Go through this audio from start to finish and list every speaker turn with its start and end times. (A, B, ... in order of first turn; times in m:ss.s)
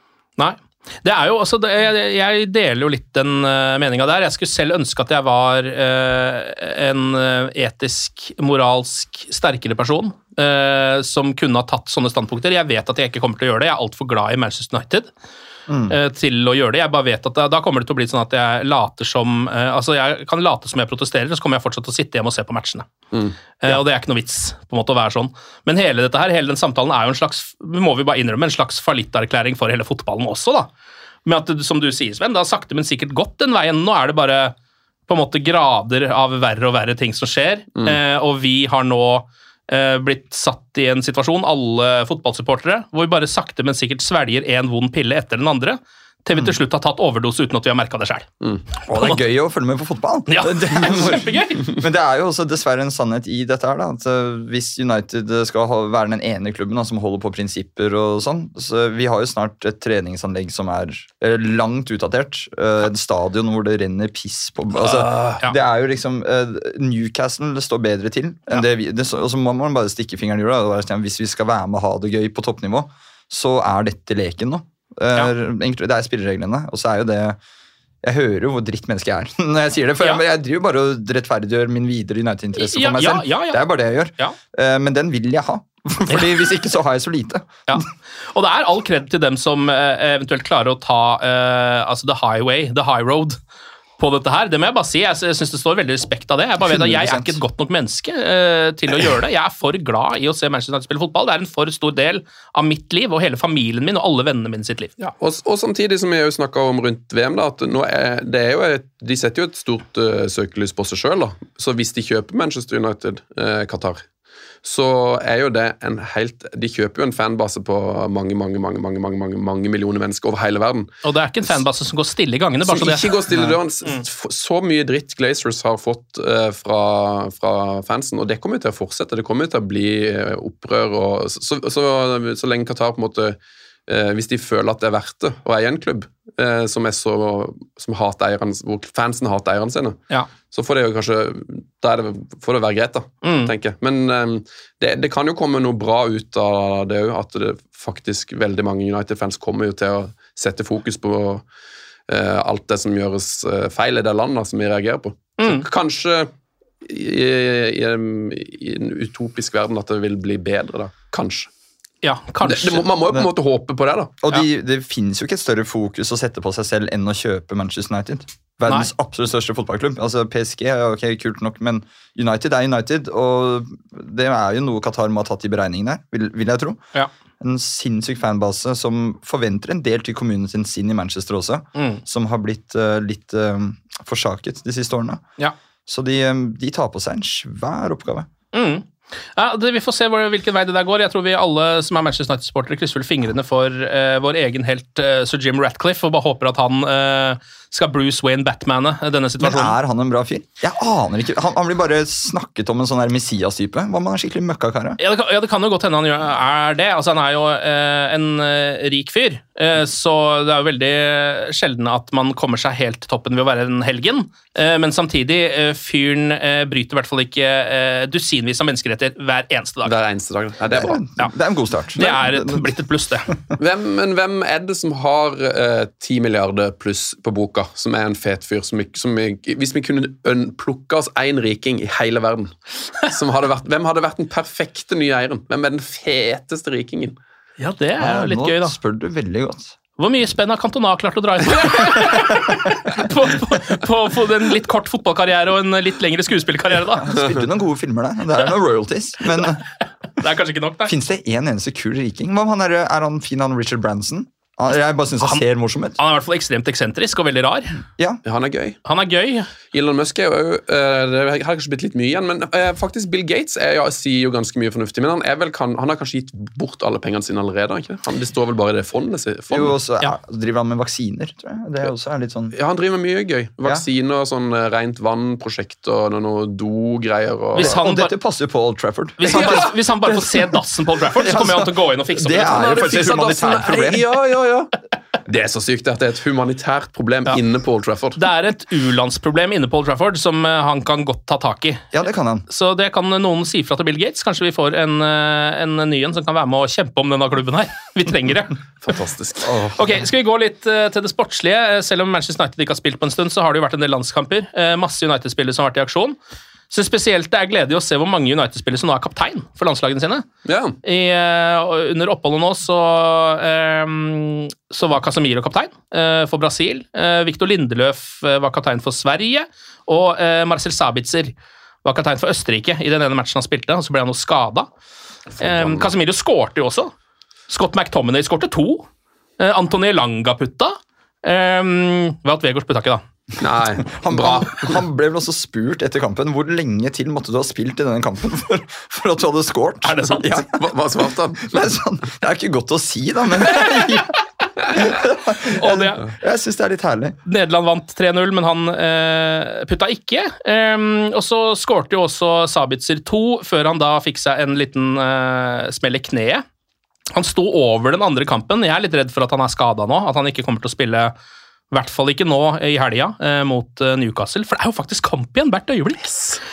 0:00.4-0:15.1 A
0:15.7-0:16.0 B
0:15.9-0:22.9 A
0:23.6-0:30.7 A
0:31.2-0:34.6 A
0:35.1-0:48.3 A
0:48.9-1:17.4 B
0:50.3-0:51.7 A
1:18.0-1:27.8 B
1:22.6-1:23.6 A
1:27.7-1:33.4 A
1:34.0-1:45.1 A
1:36.6-1:37.4 B
1:45.2-1:54.1 C
1:54.6-2:00.9 C
2:01.0-2:03.2 A
2:02.7-2:20.0 C
2:03.3-2:03.6 B
2:20.5-2:31.4 C
2:23.2-2:23.5 A
2:32.1-2:36.3 C
2:35.4-2:35.6 A
2:36.8-2:41.5 C
2:42.0-2:42.9 A
2:42.4-2:44.1 C
2:44.2-2:56.8 B
2:57.4-3:05.2 B
3:01.8-3:02.0 A
3:05.9-3:08.3 B
3:08.5-3:19.8 A
3:19.4-3:25.0 B
3:25.0-3:39.9 A
3:39.8-3:41.0 C
3:40.7-3:42.7 B
3:42.0-3:43.3 A
3:43.6-3:57.2 C
3:57.6-3:58.8 A
3:58.0-3:59.8 B
4:00.0-4:07.2 A
4:07.0-4:09.6 B
4:10.2-4:10.9 A
4:10.9-4:16.0 B
4:16.0-4:17.8 A
4:18.2-4:18.8 C
4:18.8-4:19.5 A
4:19.7-4:29.8 C
4:29.5-4:32.5 B
4:32.5-4:37.7 C
4:37.6-4:38.1 A
4:37.6-4:44.1 B
4:39.2-4:43.1 A
4:39.3-4:39.7 C
4:42.7-4:44.7 C
4:45.3-4:48.2 C
4:48.2-4:51.9 A
4:51.9-4:52.5 B
4:52.5-4:58.6 A
4:58.8-4:59.5 C
4:59.4-5:00.0 B
4:59.8-5:06.2 A
5:06.7-5:10.3 A
5:10.4-5:10.8 C
5:10.8-5:21.3 A
5:21.8-5:24.7 A
5:25.4-5:25.9 C
5:25.4-5:26.9 A
5:27.5-5:28.9 A
5:29.4-5:33.0 A
5:33.4-5:34.8 C
5:33.9-5:40.5 B
5:39.8-5:40.3 A
5:40.3-5:41.7 C
5:41.4-5:44.2 B
5:44.7-5:47.2 B
5:45.5-5:46.0 A
5:47.3-5:56.4 A
5:57.1-6:01.1 A
6:01.7-6:06.1 A
6:06.1-6:06.4 C